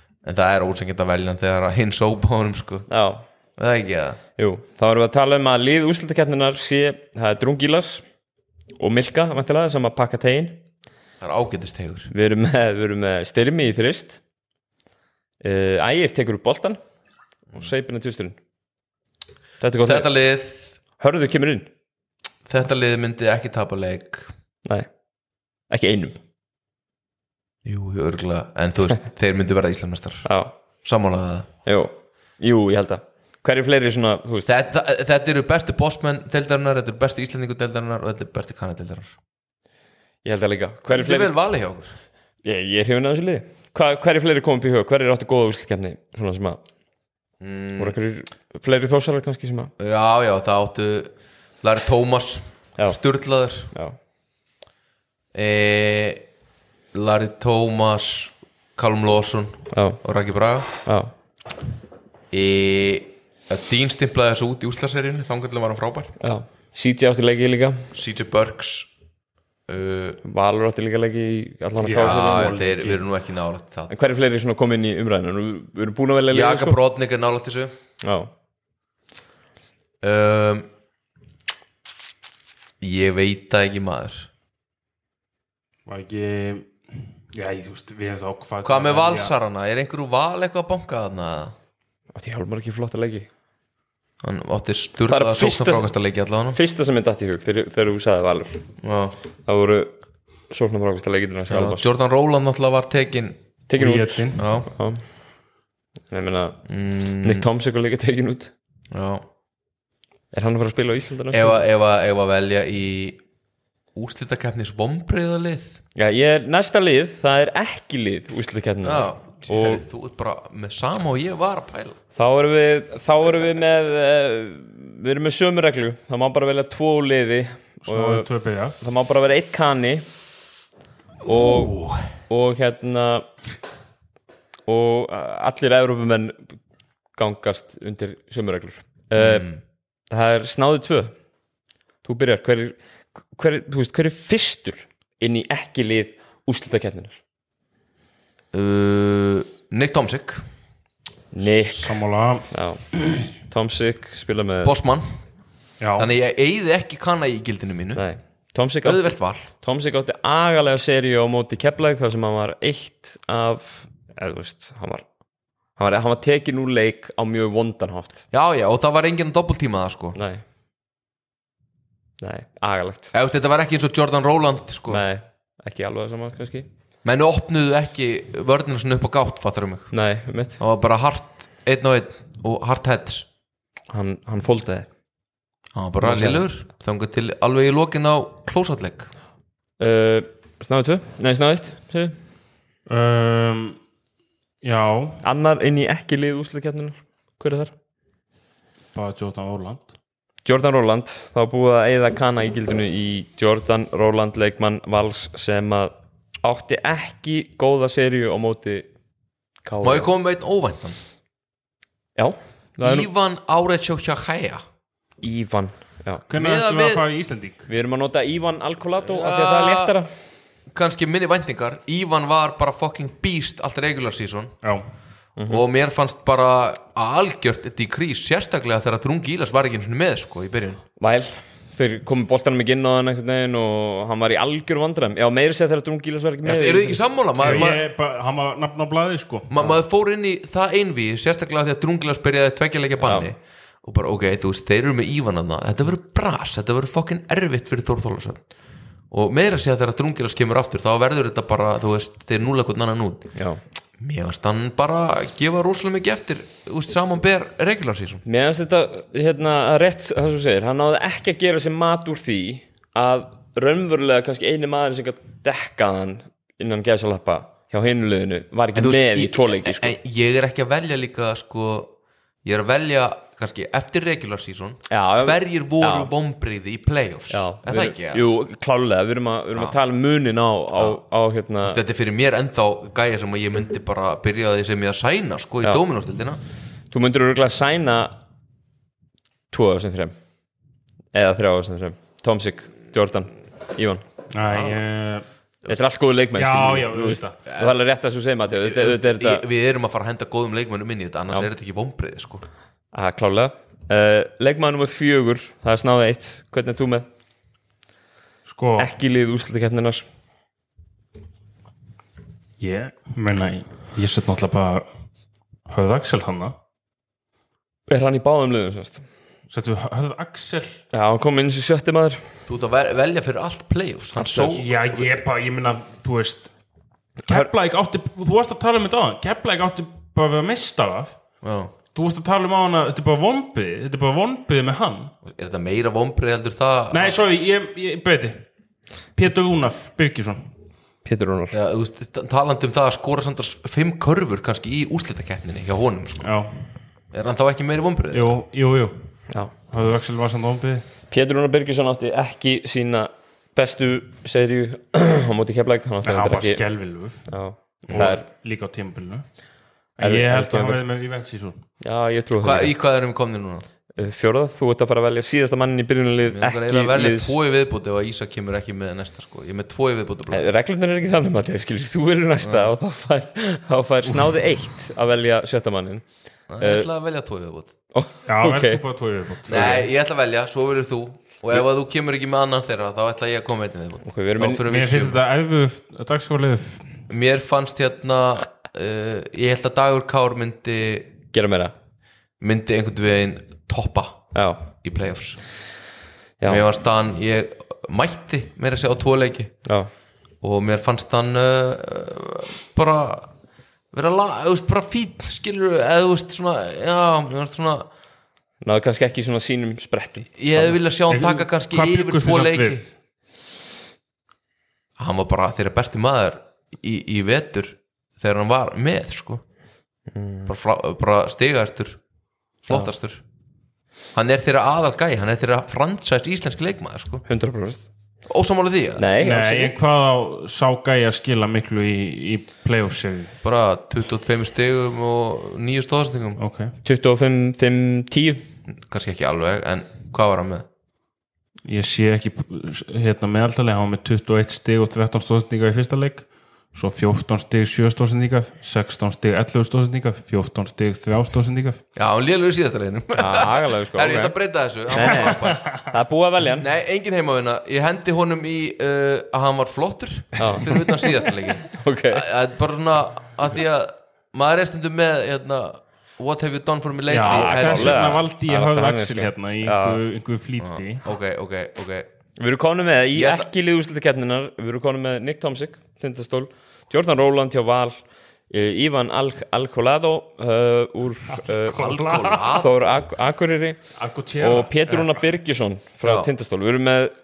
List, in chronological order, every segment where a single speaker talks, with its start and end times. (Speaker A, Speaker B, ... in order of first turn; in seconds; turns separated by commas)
Speaker A: 0.2-2.9, Speaker B: 2.9-3.3, Speaker A: 3.6-4.2, Speaker B: 4.4-8.0, Speaker B: 8.8-10.6, Speaker A: 11.2-12.1, Speaker B: 12.1-14.2, Speaker B: 15.4-16.8, Speaker B: 17.5-18.4, Speaker B: 19.6-20.1, Speaker A: 19.8-20.7, Speaker B: 21.0-21.7, Speaker A: 22.5-24.3, Speaker B: 25.7-26.2, Speaker A: 27.6-30.3, Speaker B: 30.2-30.5, Speaker A: 30.8-31.5, Speaker B: 31.6-34.5, Speaker A: 34.5-39.1, Speaker B: 40.2-41.3, Speaker A: 40.9-41.9, Speaker B: 42.4-46.6, Speaker A: 47.4-48.0, Speaker B: 47.8-49.7, Speaker A: 49.8-53.7, Speaker B: 53.7-54.0, Speaker A: 55.3-56.2, Speaker A: 56.9-60.7, Speaker B: 59.7-60.0, Speaker B: 60.8-61.1, Speaker A: 62.3-66.1, Speaker B: 66.2-67.8, Speaker A: 67.9-68.9, Speaker A: 69.7-70.2, Speaker B: 70.2-72.5, Speaker C: 71.8-73.0, Speaker A: 72.0-73.9, Speaker B: 73.9-76.8, Speaker A: 76.3-77.7, Speaker B: 78.0-78.3, Speaker A: 80.0-80.7, Speaker A: 82.8-84.3, Speaker C: 85.9-86.7, Speaker C: 87.3-89.3, Speaker A: 88.6-91.5, Speaker B: 92.1-93.3, Speaker A: 94.2-96.6, Speaker B: 95.1-95.9, Speaker B: 96.5-98.6, Speaker A: 98.8-99.1, Speaker B: 99.5-99.9, Speaker B: 100.5-101.8, Speaker A: 101.5-103.4, Speaker B: 103.7-105.0, Speaker C: 103.8-104.4, Speaker A: 104.3-104.7, Speaker B: 106.1-106.6, Speaker A: 106.7-107.5, Speaker B: 107.2-108.5, Speaker A: 108.9-109.2, Speaker B: 110.3-111.6, Speaker A: 111.3-113.2, Speaker A: 113.9-115.8, Speaker B: 116.0-119.8, Speaker A: 118.8-122.0, Speaker B: 122.1-128.3, Speaker C: 127.8-128.8, Speaker B: 128.8-130.1, Speaker B: 131.2-131.8, Speaker A: 131.2-132.0, Speaker B: 132.3-133.3, Speaker B: 134.7-136.5, Speaker B: 137.2-139.5, Speaker A: 139.1-139.6, Speaker B: 140.1-141.1, Speaker B: 142.0-142.8, Speaker B: 143.3-147.2, Speaker A: 148.5-150.4, Speaker B: 151.3-152.0, Speaker C: 151.7-152.5, Speaker B: 152.5-154.7, Speaker A: 154.6-155.1, Speaker C: 155.8-156.1, Speaker A: 155.9-158.0, Speaker B: 157.9-165.0, Speaker A: 158.8-159.5, Speaker B: 165.8-168.2, Speaker A: 168.3-170.2, Speaker B: 170.1-170.4, Speaker B: 172.2-173.1, Speaker A: 173.1-175.0, Speaker B: 174.9-176.7, Speaker A: 177.0-179.9, Speaker B: 179.9-180.6, Speaker A: 180.6-183.3, Speaker B: 183.9-184.9, Speaker A: 185.7-189.1, Speaker B: 186.0-186.4, Speaker B: 189.8-192.2, Speaker C: 192.9-193.8, Speaker C: 194.6-195.2, Speaker B: 195.2-197.7, Speaker C: 198.9-199.8, Speaker B: 200.4-208.9, Speaker B: 209.6-210.1, Speaker A: 209.8-211.0, Speaker B: 212.2-213.1, Speaker A: 212.8-214.6, Speaker B: 215.2-216.2, Speaker C: 216.3-217.7, Speaker A: 216.3-217.0, Speaker B: 217.7-220.1, Speaker A: 219.0-220.0, Speaker A: 220.7-224.5, Speaker B: 225.4-225.6, Speaker A: 225.5-230.8, Speaker B: 231.0-237.6, Speaker A: 236.4-237.8, Speaker C: 237.4-239.5, Speaker A: 239.5-248.4, Speaker B: 243.0-243.3, Speaker A: 249.1-253.3, Speaker B: 253.3-253.6, Speaker A: 254.0-258.2, Speaker B: 258.2-269.9, Speaker A: 268.7-271.9, Speaker A: 272.4-278.2, Speaker B: 274.9-276.1, Speaker B: 277.3-281.8, Speaker A: 280.7-281.0, Speaker A: 281.6-286.4, Speaker B: 286.9-288.2, Speaker B: 289.5-290.1, Speaker B: 291.1-294.0, Speaker C: 294.3-295.2, Speaker A: 294.5-294.8, Speaker B: 295.7-299.4, Speaker C: 296.3-297.4, Speaker A: 297.5-297.7, Speaker A: 298.6-302.4, Speaker B: 302.9-307.1, Speaker C: 308.4-308.9, Speaker B: 308.8-310.0, Speaker C: 312.6-314.9, Speaker C: 315.7-316.5, Speaker B: 317.9-319.0, Speaker C: 319.5-320.8, Speaker B: 320.9-322.2, Speaker A: 322.5-324.7, Speaker B: 324.2-324.5, Speaker C: 324.4-326.5, Speaker C: 327.2-331.2, Speaker A: 331.4-331.7, Speaker C: 331.9-335.1, Speaker A: 335.2-337.1, Speaker C: 336.9-338.5, Speaker C: 339.1-340.5, Speaker B: 341.0-341.5, Speaker A: 341.5-346.3, Speaker C: 346.2-346.6, Speaker A: 347.1-348.3, Speaker C: 348.1-348.9, Speaker C: 349.7-350.8, Speaker B: 351.1-356.6, Speaker C: 356.0-357.3, Speaker B: 357.3-358.2, Speaker C: 357.8-359.2, Speaker A: 357.9-358.1, Speaker C: 360.0-361.6, Speaker B: 360.0-360.8, Speaker B: 361.8-362.7, Speaker A: 362.4-363.6, Speaker B: 363.9-367.3, Speaker A: 366.3-370.4, Speaker B: 370.3-376.0, Speaker A: 372.4-372.7, Speaker A: 376.5-377.7, Speaker B: 376.6-376.9, Speaker B: 377.9-378.8, Speaker C: 378.2-379.9, Speaker A: 379.5-385.2, Speaker B: 379.5-379.8, Speaker B: 384.0-384.6, Speaker C: 384.6-387.0, Speaker A: 387.1-391.1, Speaker B: 391.3-391.7, Speaker A: 392.4-394.2, Speaker B: 394.3-394.7, Speaker A: 394.8-395.4, Speaker B: 396.4-396.6, Speaker A: 396.5-399.5, Speaker A: 400.4-403.3, Speaker A: 403.9-407.9, Speaker B: 408.6-410.7, Speaker A: 410.4-412.8, Speaker C: 411.1-412.9, Speaker A: 415.0-419.4, Speaker B: 420.1-420.5, Speaker A: 420.5-422.0, Speaker A: 422.6-423.2, Speaker A: 424.1-427.2, Speaker B: 427.2-427.8, Speaker A: 428.3-429.1, Speaker B: 429.0-429.7, Speaker C: 429.2-433.3, Speaker A: 433.4-436.4, Speaker C: 436.4-436.7, Speaker B: 436.8-438.4, Speaker A: 438.7-440.7, Speaker C: 441.6-451.8, Speaker A: 451.9-455.7, Speaker B: 453.1-454.3, Speaker B: 454.9-456.6, Speaker C: 455.1-455.8, Speaker A: 456.6-468.1, Speaker B: 460.4-461.0, Speaker B: 461.6-462.2, Speaker C: 467.1-471.0, Speaker B: 467.3-470.0, Speaker A: 470.6-472.1, Speaker B: 472.4-481.8, Speaker A: 473.1-473.5, Speaker C: 481.3-482.5, Speaker A: 481.7-482.7, Speaker B: 482.5-483.8, Speaker C: 483.9-485.2, Speaker B: 484.4-487.1